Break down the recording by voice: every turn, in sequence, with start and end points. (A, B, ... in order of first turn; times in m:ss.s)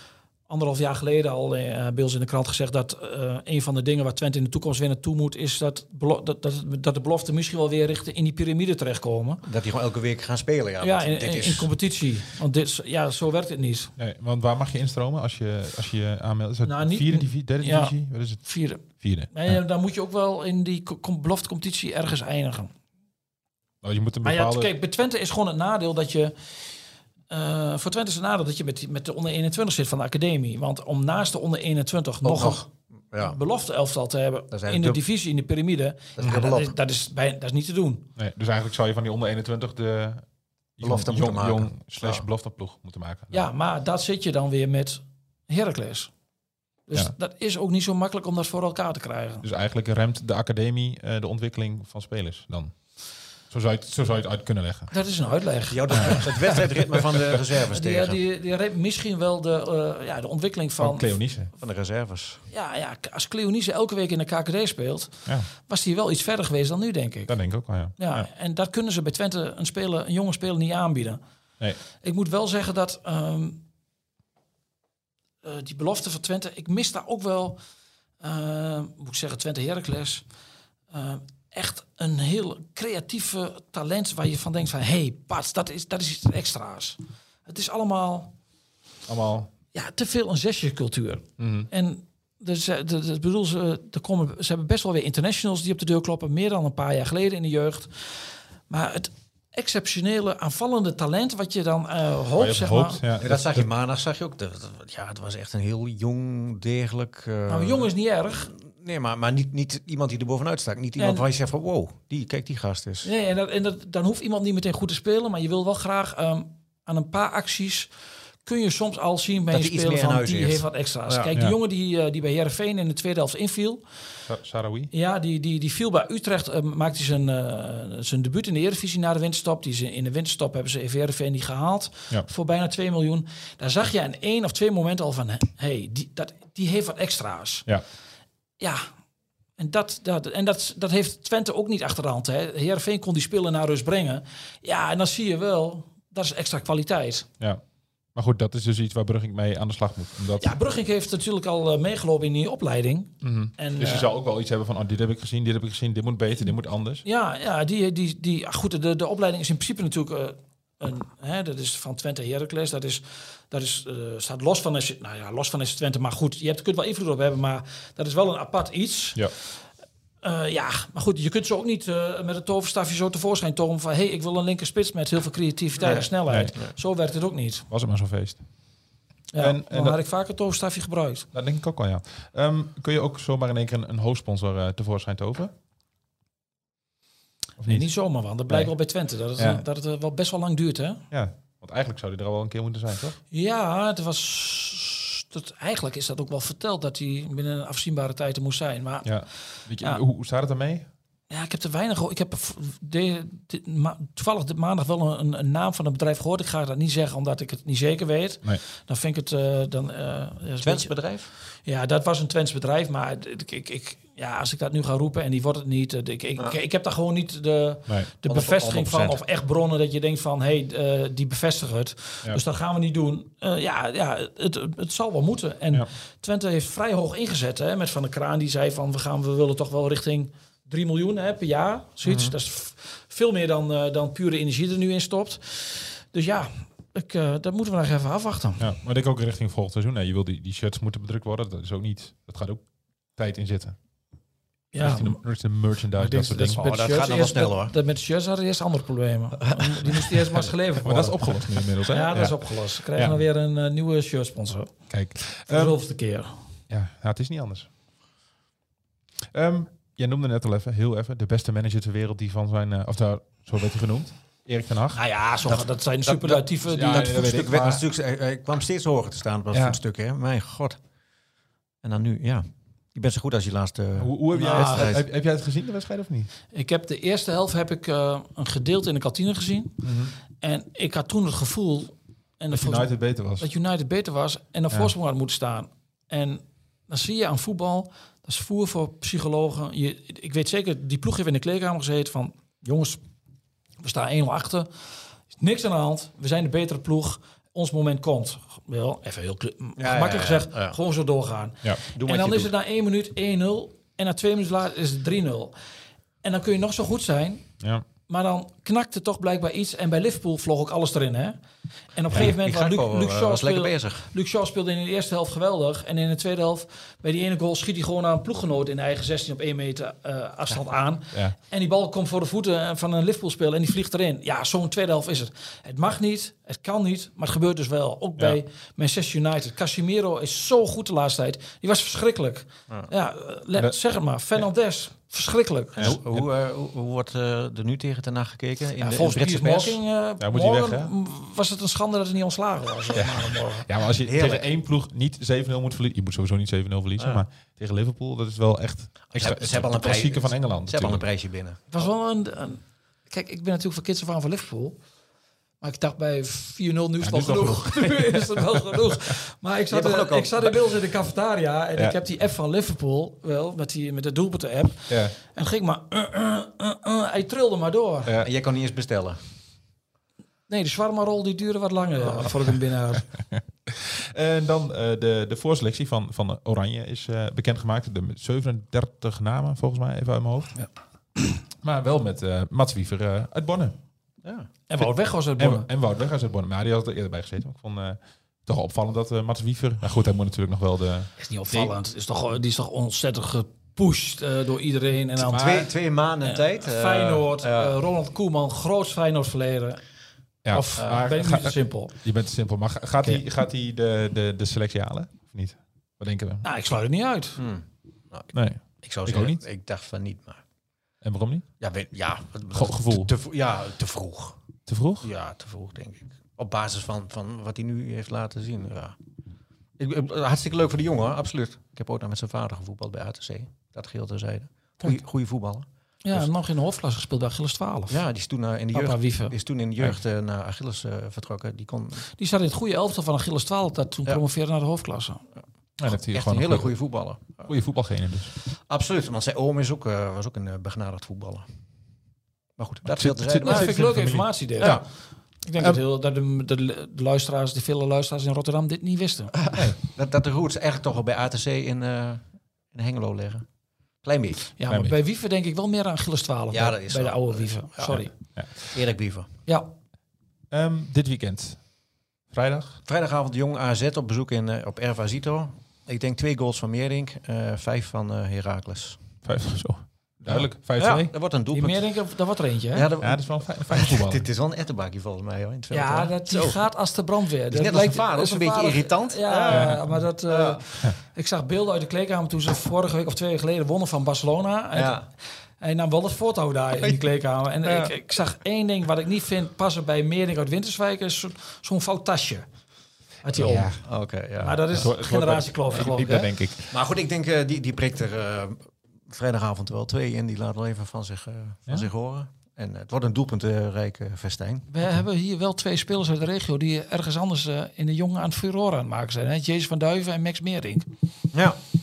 0:00.5-0:09.4 A
0:09.4-0:11.7 B
0:10.8-0:13.9 A
0:14.0-0:19.6 C
0:16.6-0:22.7 A
0:23.8-0:24.7 C
0:24.2-0:26.3 A
0:27.3-0:32.6 A
0:32.2-0:33.4 B
0:33.2-0:38.0 A
0:34.5-0:35.0 B
0:36.2-0:36.7 B
0:38.2-0:40.2 C
0:40.8-0:43.5 C
0:40.8-0:42.2 B
0:43.3-0:46.1 A
0:46.9-0:49.4 A
0:49.4-0:52.7 C
0:53.5-0:54.9 C
0:54.9-0:56.6 A
0:55.7-0:58.2 B
0:57.7-1:01.2 A
1:00.8-1:01.5 C
1:01.6-1:02.4 B
1:02.5-1:07.3 A
1:07.3-1:08.2 C
1:08.0-1:11.2 A
1:12.0-1:13.6 A
1:15.4-1:17.6 A
1:18.2-1:20.2 A
1:20.9-1:28.3 A
1:29.1-1:29.5 C
1:29.7-1:38.2 A
1:31.4-1:31.7 C
1:38.7-1:43.0 A
1:42.4-1:43.7 C
1:43.2-1:47.9 B
1:47.5-1:48.5 A
1:48.5-1:53.1 B
1:51.0-1:51.2 A
1:53.0-1:57.9 A
1:58.4-2:03.8 A
1:59.5-2:01.3 B
2:04.2-2:04.9 C
2:04.9-2:17.6 A
2:18.6-2:18.8 A
2:19.6-2:27.3 A
2:28.1-2:30.6 C
2:30.4-2:34.1 A
2:33.2-2:37.0 C
2:37.0-2:49.3 A
2:50.2-2:57.6 A
2:55.8-2:56.7 B
2:56.3-2:56.5 C
2:57.7-2:58.4 C
2:59.3-3:01.3 A
2:59.4-3:00.0 C
3:01.3-3:05.5 C
3:07.6-3:07.9 C
3:07.6-3:11.0 A
3:09.4-3:09.6 C
3:11.1-3:13.2 C
3:13.3-3:19.1 A
3:19.0-3:20.9 C
3:21.3-3:30.9 A
3:30.6-3:31.3 B
3:31.6-3:58.6 A
3:38.2-3:39.2 B
3:52.0-3:52.3 B
3:58.6-4:02.6 C
4:03.2-4:03.8 C
4:04.7-4:05.2 A
4:04.8-4:06.6 C
4:06.0-4:14.7 A
4:06.6-4:07.7 B
4:09.4-4:10.0 B
4:10.8-4:13.2 C
4:14.9-4:15.8 C
4:15.5-4:16.3 A
4:16.7-4:17.7 C
4:19.3-4:25.0 C
4:24.9-4:27.2 A
4:25.4-4:30.8 B
4:26.7-4:27.8 C
4:29.5-4:29.8 C
4:31.8-4:35.0 B
4:34.0-4:36.3 C
4:34.3-4:34.9 A
4:36.5-4:39.8 A
4:39.8-4:40.1 C
4:40.4-4:53.0 A
4:42.5-4:43.5 C
4:53.8-4:54.7 A
4:55.4-5:05.5 A
4:59.8-5:00.8 B
5:01.9-5:02.5 B
5:06.2-5:07.4 A
5:08.1-5:11.4 A
5:11.9-5:35.9 A
5:12.1-5:14.1 B
5:35.8-5:36.3 C
5:35.8-5:39.8 B
5:38.8-5:43.7 A
5:40.2-5:40.9 C
5:43.0-5:51.0 C
5:44.0-5:44.4 B
5:47.0-5:47.2 B
5:49.1-5:51.8 B
5:51.7-5:54.8 A
5:55.6-6:08.1 A
5:57.0-5:58.2 C
5:59.7-6:00.6 B
6:04.9-6:05.1 C
6:08.2-6:09.2 B
6:10.5-6:13.1 A
6:13.7-6:20.6 C
6:21.6-6:23.7 C
6:24.2-6:24.5 B
6:24.7-6:25.7 A
6:25.4-6:31.7 C
6:31.2-6:35.7 A
6:35.2-6:37.8 B
6:36.2-6:39.8 A
6:40.4-6:46.4 C
6:40.5-6:41.9 A
6:40.8-6:41.1 B
6:46.4-6:47.4 A
6:47.4-6:50.4 B
6:48.3-6:49.4 C
6:51.0-6:51.4 C
6:51.6-6:54.4 B
6:52.5-6:53.1 C
6:54.7-6:55.1 C
6:55.0-6:59.0 B
6:59.8-7:06.3 B
7:06.0-7:08.0 A
7:07.9-7:12.0 B
7:08.7-7:09.3 A
7:12.2-7:15.2 A
7:15.8-7:16.8 C
7:15.9-7:17.5 B
7:17.4-7:18.3 C
7:18.7-7:21.4 B
7:22.6-7:23.8 B
7:22.9-7:24.8 C
7:23.4-7:24.8 A
7:25.4-7:29.4 A
7:29.6-7:33.4 B
7:34.0-7:34.4 B
7:34.6-7:38.1 A
7:34.7-7:35.0 C
7:36.5-7:38.0 B
7:37.9-7:38.6 C
7:38.6-7:39.3 B
7:40.5-7:41.7 C
7:42.3-7:42.8 C
7:42.8-7:49.0 B
7:49.2-7:51.1 C
7:50.3-7:52.0 B
7:51.5-7:52.9 A
7:52.7-7:56.6 B
7:53.0-7:54.3 C
7:55.7-8:05.0 A
7:57.5-8:00.6 B
7:59.5-8:00.0 C
8:04.7-8:05.0 B
8:05.6-8:12.4 A
8:13.2-8:13.8 A
8:13.4-8:13.8 C
8:13.8-8:14.9 B
8:14.4-8:16.3 A
8:14.4-8:16.8 C
8:16.7-8:24.7 B
8:24.7-8:30.9 A
8:31.3-8:31.6 B